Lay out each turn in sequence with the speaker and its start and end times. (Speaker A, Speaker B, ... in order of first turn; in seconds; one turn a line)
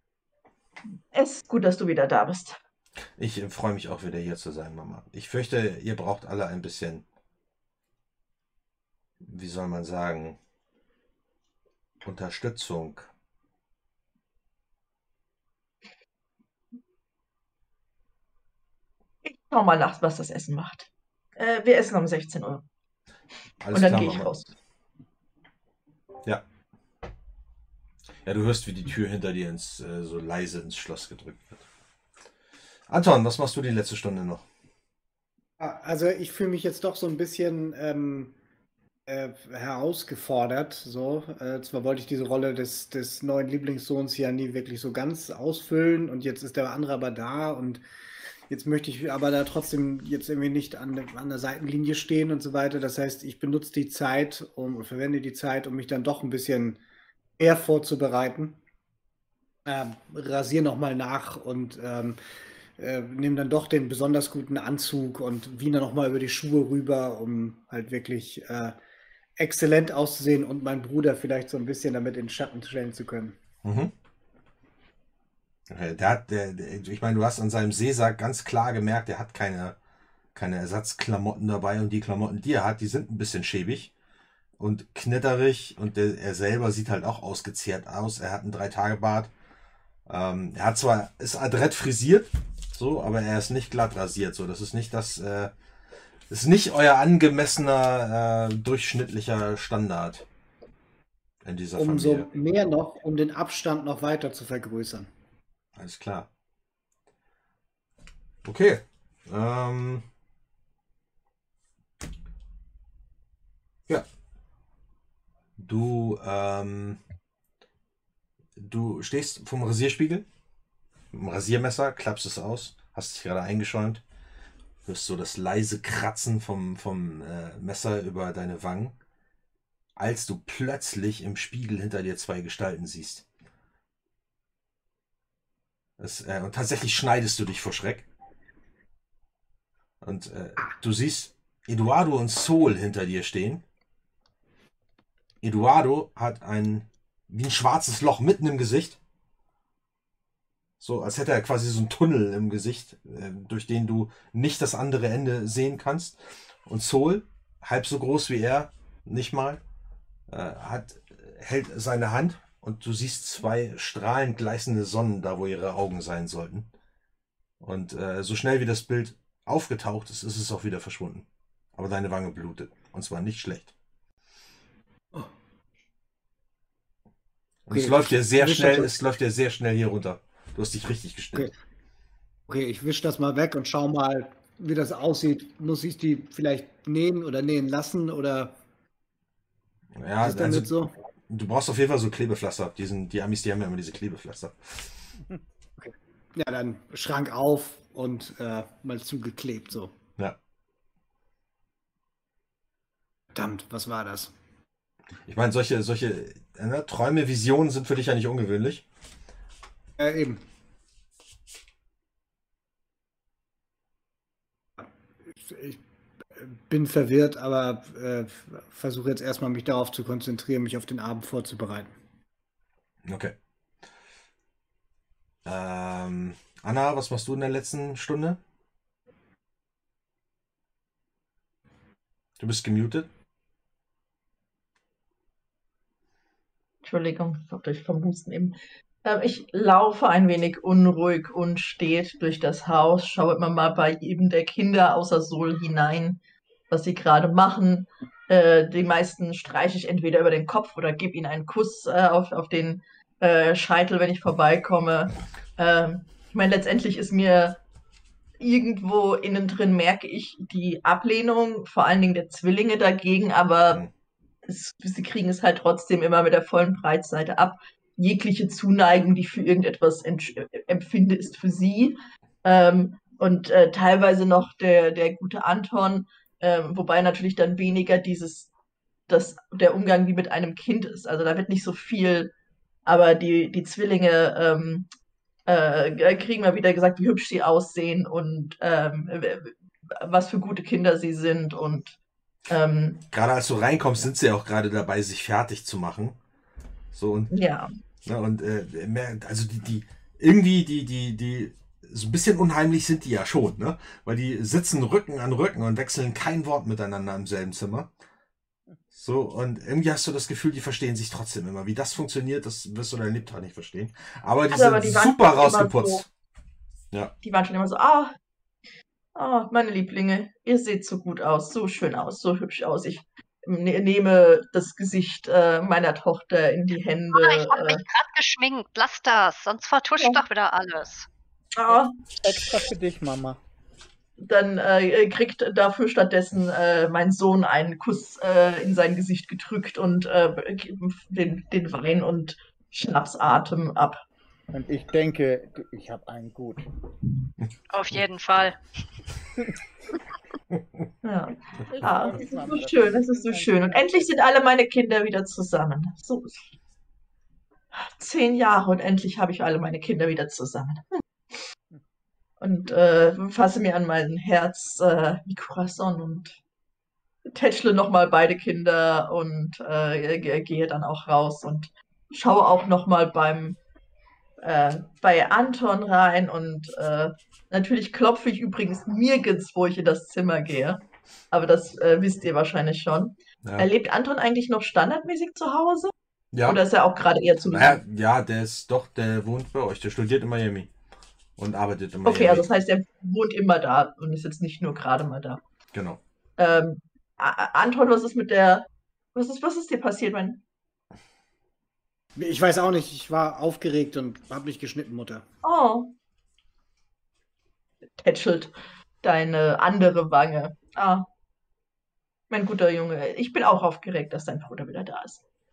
Speaker A: 1.1-2.6
Speaker B: 3.2-7.0
Speaker B: 9.2-10.4
Speaker B: 12.0-13.1
Speaker A: 19.2-22.6
Speaker B: 23.6-24.4
Speaker A: 23.7-24.5
Speaker B: 28.2-31.6
Speaker B: 32.9-34.4
Speaker C: 35.6-38.4
Speaker C: 39.0-47.8
Speaker C: 48.5-56.8
Speaker C: 57.4-58.6
Speaker C: 59.6-62.2
Speaker C: 62.8-68.8
Speaker C: 69.4-73.4
Speaker B: 73.6-73.9
Speaker B: 75.7-79.8
Speaker B: 80.3-83.9
Speaker B: 84.6-89.3
Speaker B: 90.1-95.5
Speaker B: 96.3-100.2
Speaker B: 101.4-102.3
Speaker C: 101.8-105.1
Speaker B: 105.8-106.3
Speaker B: 108.4-110.0
Speaker B: 115.6-117.0
Speaker B: 118.5-120.2
Speaker B: 121.1-124.0
Speaker B: 124.8-128.9
Speaker B: 130.0-133.2
Speaker B: 136.0-138.1
Speaker B: 140.0-143.6
Speaker B: 145.4-149.0
Speaker B: 150.8-159.6
Speaker B: 160.3-166.7
Speaker B: 167.6-173.7
Speaker B: 177.7-181.5
Speaker C: 177.7-178.9
Speaker C: 182.5-188.6
Speaker B: 189.9-194.9
Speaker C: 190.2-190.9
Speaker C: 195.8-199.9
Speaker C: 203.3-204.3
Speaker B: 205.3-208.8
Speaker C: 210.0-210.4
Speaker C: 214.8-215.8
Speaker C: 216.3-221.9
Speaker B: 223.0-223.3
Speaker B: 225.4-228.4
Speaker B: 232.4-233.1
Speaker A: 236.8-257.6
Speaker A: 258.4-263.9
Speaker A: 264.5-278.5
Speaker A: 279.1-282.3
Speaker A: 282.9-284.9
Speaker A: 285.5-292.0
Speaker A: 292.5-293.0
Speaker B: 293.1-296.2
Speaker B: 296.9-297.3
Speaker A: 297.3-297.7
Speaker B: 298.0-307.9
Speaker B: 308.9-316.1
Speaker A: 314.5-316.0
Speaker A: 317.2-318.1
Speaker A: 319.1-327.8
Speaker D: 327.1-331.1
Speaker A: 331.5-332.1
Speaker E: 332.2-333.4
Speaker A: 334.2-344.0
Speaker E: 344.5-346.6
Speaker D: 347.7-348.8
Speaker A: 351.0-356.4
Speaker E: 351.7-354.1
Speaker A: 357.7-361.0
Speaker A: 362.4-366.4
Speaker A: 367.3-373.6
Speaker A: 374.4-380.8
Speaker A: 381.3-385.9
Speaker B: 383.4-383.7
Speaker B: 386.3-386.6
Speaker A: 386.4-387.8
Speaker B: 387.5-390.7
Speaker B: 391.4-392.4
Speaker A: 392.0-395.4
Speaker B: 395.7-396.0
Speaker A: 396.4-400.4
Speaker C: 402.1-405.2
Speaker A: 405.4-405.9
Speaker A: 408.0-411.1
Speaker A: 412.3-415.2